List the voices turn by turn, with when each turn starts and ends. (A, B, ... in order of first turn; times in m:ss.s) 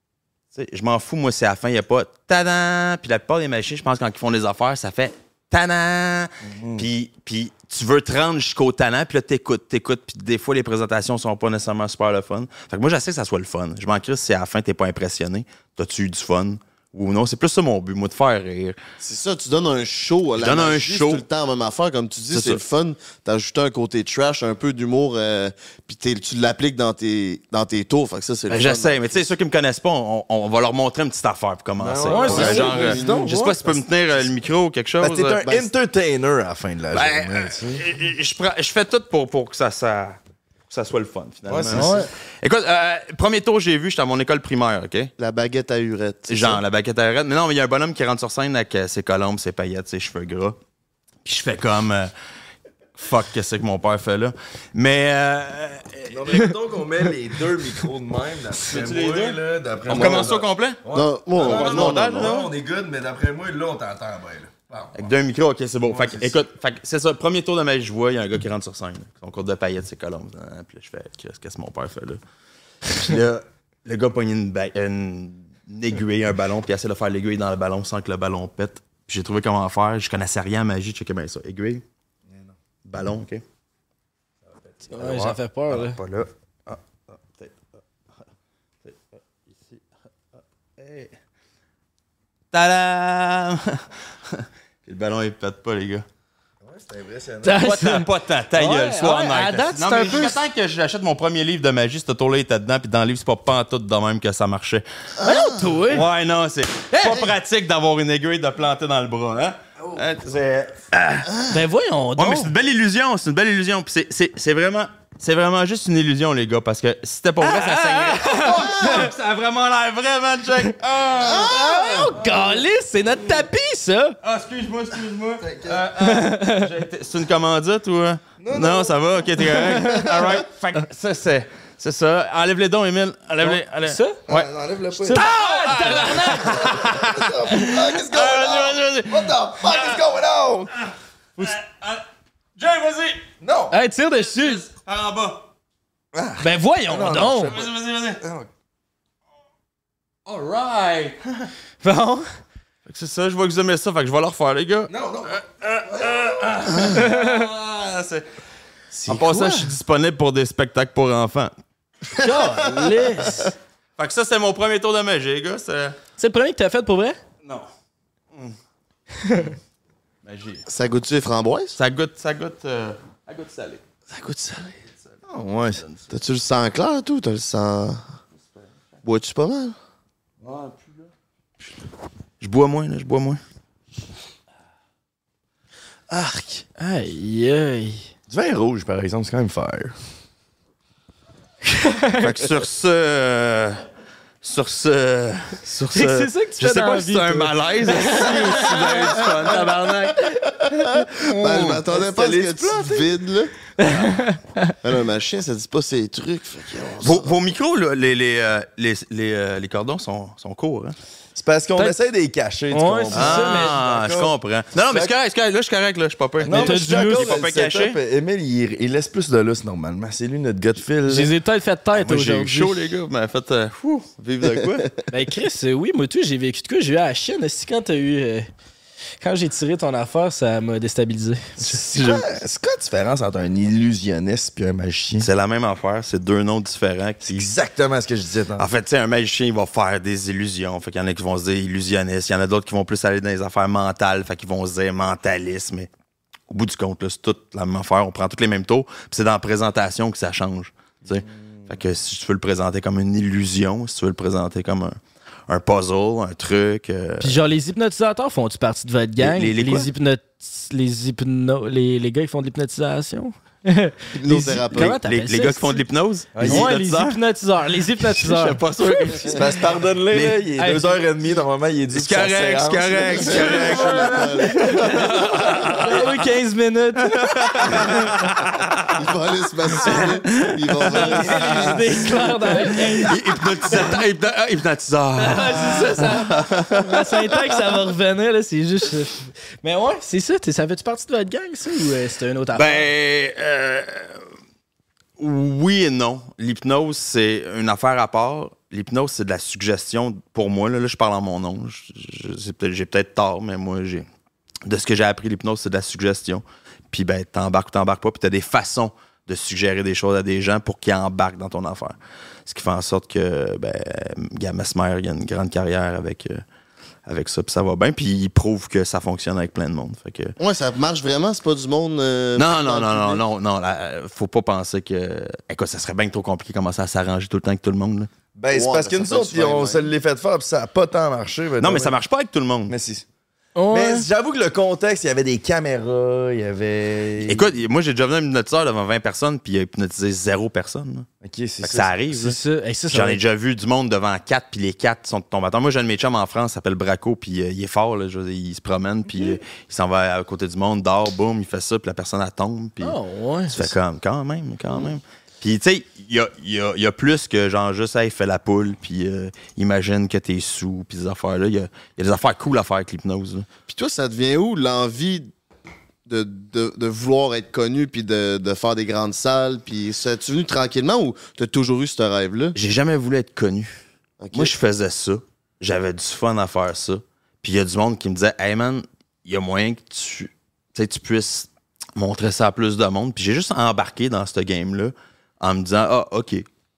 0:00.5-0:18.8 A
0:06.4-0:06.9 B
0:19.0-0:29.2 C
0:20.4-0:21.2 A
0:22.3-0:22.6 A
0:28.5-0:35.4 A
0:31.8-0:33.7 B
0:32.1-0:33.2 D
0:32.2-0:33.5 C
0:35.0-0:37.8 B
0:36.9-0:40.2 A
0:40.7-0:45.1 A
0:41.5-0:42.1 B
0:41.7-0:42.1 D
0:45.2-0:46.6 C
0:46.3-0:50.6 A
0:51.2-0:52.1 A
0:53.0-0:56.5 A
0:56.1-1:05.1 B
0:58.6-1:00.8 A
0:59.9-1:00.4 C
1:00.9-1:02.3 C
1:01.4-1:02.5 A
1:05.0-1:12.2 A
1:05.9-1:06.3 B
1:12.9-1:21.8 A
1:22.3-1:22.5 B
1:22.8-1:23.4 A
1:24.5-1:25.0 B
1:24.9-1:26.0 D
1:25.0-1:27.6 A
1:28.8-1:29.8 A
1:30.8-1:31.1 A
1:32.5-1:36.0 A
1:36.6-1:37.6 B
1:37.4-1:40.4 D
1:37.6-1:44.8 A
1:45.2-1:45.6 C
1:45.2-1:46.1 D
1:45.9-1:51.4 A
1:51.5-1:52.5 D
1:52.2-2:01.6 A
1:57.4-1:59.1 D
2:01.2-2:02.1 C
2:01.4-2:04.2 D
2:04.2-2:14.5 A
2:05.4-2:05.8 B
2:06.0-2:06.7 D
2:08.4-2:09.2 B
2:09.6-2:10.2 D
2:13.8-2:14.2 D
2:14.3-2:20.7 B
2:15.0-2:16.8 D
2:15.1-2:20.0 A
2:21.4-2:22.0 A
2:22.6-2:23.2 A
2:23.4-2:23.8 B
2:23.7-2:24.6 D
2:24.3-2:25.4 A
2:26.1-2:28.5 B
2:26.4-2:27.6 D
2:27.5-2:28.2 A
2:30.2-2:31.5 A
2:31.8-2:32.3 D
2:32.9-2:38.2 A
2:34.9-2:36.2 B
2:36.9-2:37.4 D
2:39.0-2:41.5 A
2:42.2-2:43.5 D
2:44.0-2:46.0 A
2:46.2-2:47.2 D
2:49.2-2:49.5 D
2:50.2-2:50.6 A
2:50.7-2:51.8 C
2:51.8-2:55.1 A
2:55.3-2:55.8 B
2:55.8-2:56.1 A
2:56.1-2:58.0 C
2:59.0-2:59.7 C
3:00.4-3:01.0 A
3:02.4-3:03.4 A
3:06.1-3:06.6 A
3:06.8-3:08.1 D
3:08.3-3:09.9 B
3:11.6-3:12.3 D
3:12.2-3:13.8 A
3:14.4-3:20.3 A
3:15.9-3:19.6 D
3:20.7-3:23.5 C
3:21.2-3:21.8 A
3:21.6-3:23.1 B
3:23.8-3:24.8 D
3:24.8-3:27.3 C
3:27.0-3:31.0 A
3:31.4-3:34.3 B
3:32.7-3:33.8 D
3:33.1-3:38.0 A
3:36.4-3:41.3 B
3:36.5-3:37.3 D
3:41.1-3:42.8 D
3:42.0-3:44.9 A
3:45.1-3:48.5 D
3:49.2-3:51.7 D
3:51.6-3:52.3 A
3:51.9-3:55.3 B
3:55.2-3:57.4 A
3:57.2-3:58.7 B
3:58.6-4:05.9 A
4:06.5-4:15.0 A
4:11.1-4:11.7 B
4:15.5-4:17.4 A
4:17.2-4:25.8 D
4:19.2-4:19.9 A
4:24.2-4:24.9 C
4:24.6-4:27.2 A
4:26.3-4:26.7 B
4:26.4-4:29.3 D
4:28.0-4:29.6 A
4:29.2-4:34.9 B
4:30.1-4:30.4 A
4:30.6-4:30.9 D
4:31.9-4:36.1 A
4:33.1-4:35.1 C
4:34.5-4:38.2 D
4:37.2-4:39.0 A
4:38.9-4:42.1 C
4:40.8-4:43.9 D
4:41.0-4:41.4 A
4:43.0-4:47.4 A
4:45.2-4:52.8 D
4:52.5-4:54.2 A
4:55.2-5:04.1 A
5:04.6-5:16.4 A
5:17.1-5:20.4 A
5:20.4-5:23.2 C
5:22.4-5:28.1 A
5:28.3-5:31.9 B
5:28.5-5:29.9 C
5:31.6-5:32.7 A
5:32.7-5:33.0 B
5:33.6-5:34.1 D
5:33.7-5:37.5 B
5:37.2-5:41.1 A
5:41.2-5:41.9 B
5:41.6-5:42.4 A
5:42.1-5:43.2 D
5:42.9-5:53.0 A
5:52.8-5:53.7 D
5:53.5-6:03.4 A
6:03.7-6:05.3 C
6:06.1-6:12.6 C
6:12.5-6:13.8 A
6:14.2-6:14.5 C
6:14.3-6:26.4 A